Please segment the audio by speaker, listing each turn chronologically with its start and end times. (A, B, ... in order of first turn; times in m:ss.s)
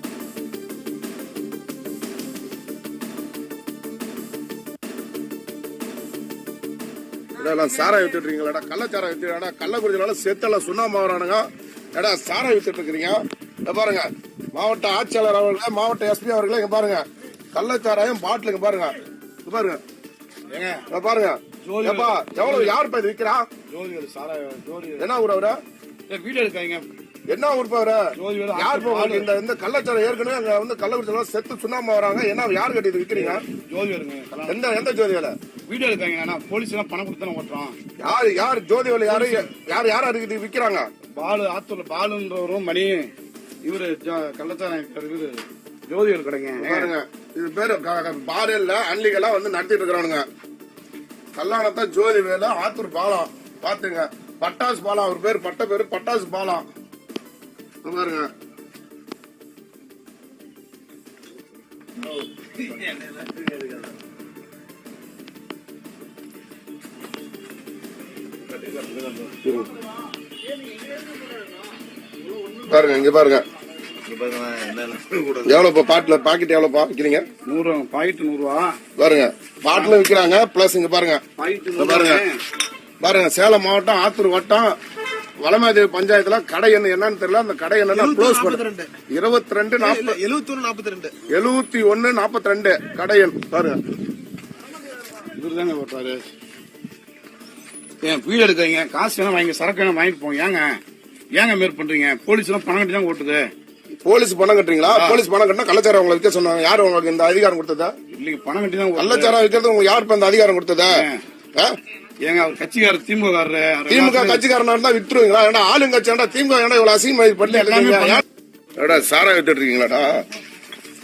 0:07.4-0:19.8 A
0:20.5-0:20.8 B
0:20.9-0:23.5 A
0:21.6-0:22.8 B
0:23.7-0:25.1 B
0:25.0-0:25.6 A
0:26.1-0:26.8 B
0:27.3-0:33.5 A
0:28.2-0:29.3 B
0:33.1-0:34.6 B
0:34.5-0:35.3 A
0:35.7-0:37.8 B
0:38.0-0:40.9 A
0:39.1-0:39.5 B
0:41.2-0:43.0 B
0:43.6-0:46.9 B
0:46.6-0:50.2 A
0:51.4-0:56.6 A
0:57.8-0:58.3 A
1:02.9-1:03.4 C
1:08.6-1:09.2 B
1:09.4-1:09.7 A
1:12.5-1:13.5 A
1:14.1-1:15.5 C
1:15.4-1:17.3 A
1:17.5-1:18.8 B
1:19.0-1:21.2 A
1:21.4-1:22.4 B
1:21.8-1:22.3 A
1:23.0-1:24.8 A
1:25.4-1:30.2 A
1:27.9-1:28.9 C
1:29.8-1:31.2 C
1:31.3-1:33.8 A
1:35.4-1:36.2 B
1:38.0-1:40.6 B
1:41.4-1:43.4 B
1:44.0-1:48.0 A
1:44.9-1:45.2 B
1:48.1-1:49.4 B
1:49.0-1:51.0 A
1:50.9-1:51.2 B
1:52.2-1:54.4 B
1:53.9-1:58.2 A
1:57.4-1:58.2 B
1:58.8-2:00.2 A